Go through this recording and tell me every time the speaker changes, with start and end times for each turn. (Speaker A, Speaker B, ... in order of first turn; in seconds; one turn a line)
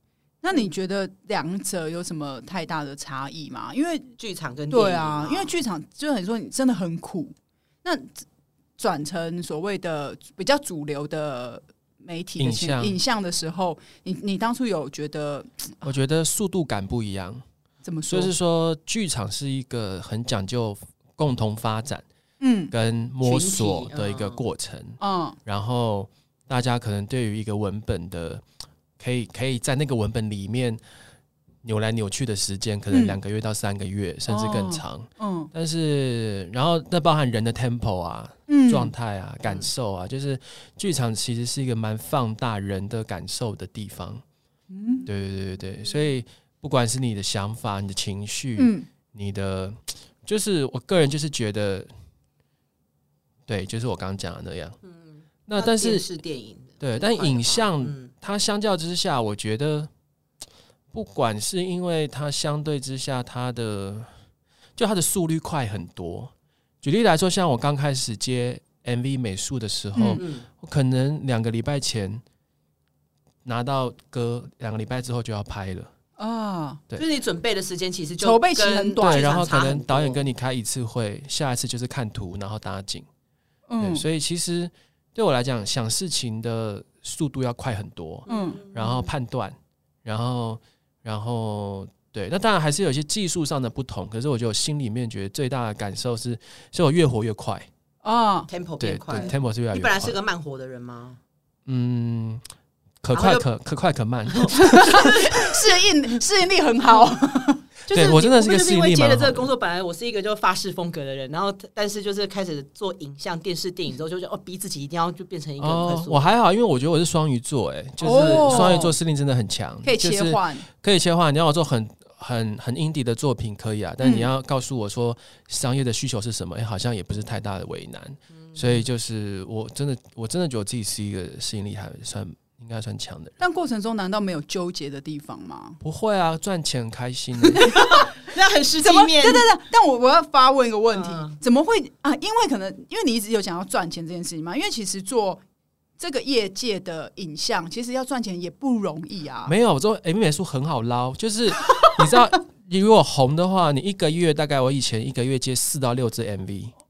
Speaker A: 0.4-4.1
Speaker B: 4.2-5.6
Speaker A: 4.7-8.3
Speaker A: 8.8-15.9
Speaker C: 12.4-13.0
Speaker C: 15.8-17.4
Speaker A: 17.8-18.3
Speaker C: 18.1-22.1
Speaker A: 22.4-22.7
Speaker C: 22.7-28.4
Speaker B: 23.2-24.4
Speaker A: 25.0-25.4
Speaker C: 29.0-30.8
Speaker C: 31.6-44.2
Speaker A: 32.9-33.2
Speaker A: 34.3-35.5
Speaker A: 38.5-38.9
Speaker A: 44.7-45.1
Speaker C: 45.1-51.9
Speaker A: 48.6-48.9
Speaker C: 53.5-54.8
Speaker B: 54.8-58.1
Speaker C: 55.5-56.1
Speaker C: 56.8-59.9
Speaker C: 60.9-64.1
Speaker C: 64.8-72.2
Speaker A: 70.0-70.2
Speaker B: 70.2-70.5
Speaker C: 73.5-75.9
Speaker A: 76.2-76.8
Speaker B: 77.0-80.2
Speaker A: 78.2-79.5
Speaker C: 79.0-83.1
Speaker A: 83.7-84.0
Speaker C: 83.8-97.7
Speaker A: 88.3-88.6
Speaker B: 88.3-89.1
Speaker A: 98.0-98.5
Speaker B: 98.5-101.2
Speaker C: 98.8-100.2
Speaker C: 101.7-102.4
Speaker C: 103.0-105.5
Speaker B: 103.1-103.5
Speaker B: 104.3-105.1
Speaker A: 104.5-107.7
Speaker B: 107.9-116.3
Speaker C: 107.9-109.5
Speaker C: 115.6-133.4
Speaker A: 118.0-118.9
Speaker B: 118.1-118.9
Speaker A: 119.8-120.7
Speaker A: 124.0-124.3
Speaker B: 128.4-128.8
Speaker A: 133.4-135.8
Speaker C: 135.8-137.7
Speaker A: 137.6-138.1
Speaker B: 137.7-139.5
Speaker A: 138.8-145.4
Speaker B: 140.9-141.4
Speaker A: 146.0-149.5
Speaker C: 149.5-156.7